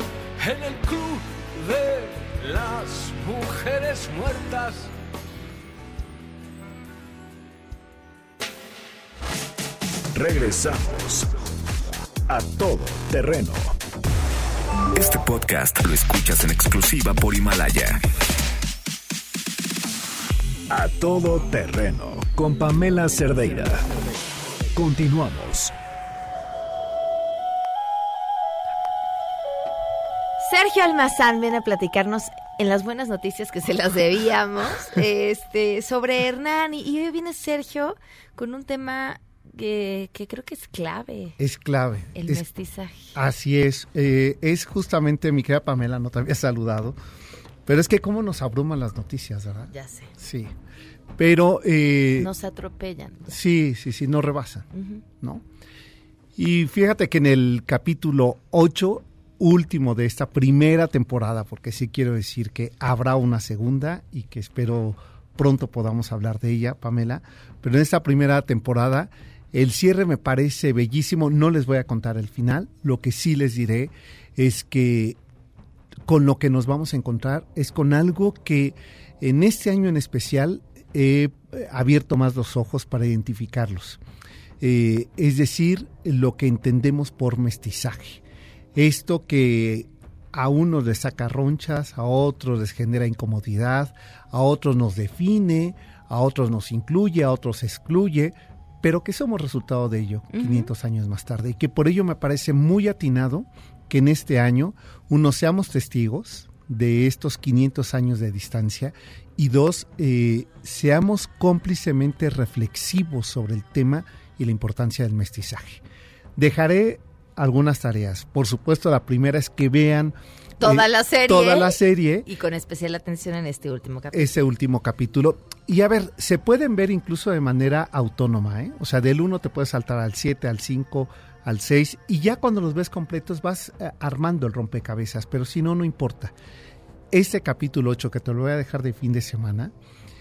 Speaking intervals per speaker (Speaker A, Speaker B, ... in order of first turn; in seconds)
Speaker A: 0.4-4.9
Speaker B: 10.1-11.3, 12.3-13.7, 20.7-23.9, 24.8-25.7
Speaker C: 14.9-18.0
Speaker D: 30.4-41.4, 42.1-43.1, 49.7-50.1, 52.2-53.3, 54.7-55.0, 100.3-100.7, 120.6-124.3
Speaker E: 41.4-42.4, 43.1-47.0, 47.6-50.5, 51.2-52.3, 53.3-54.7, 56.4-75.2, 76.0-84.0, 84.6-88.2, 88.7-115.8, 116.3-122.3, 124.1-136.3, 137.1-139.7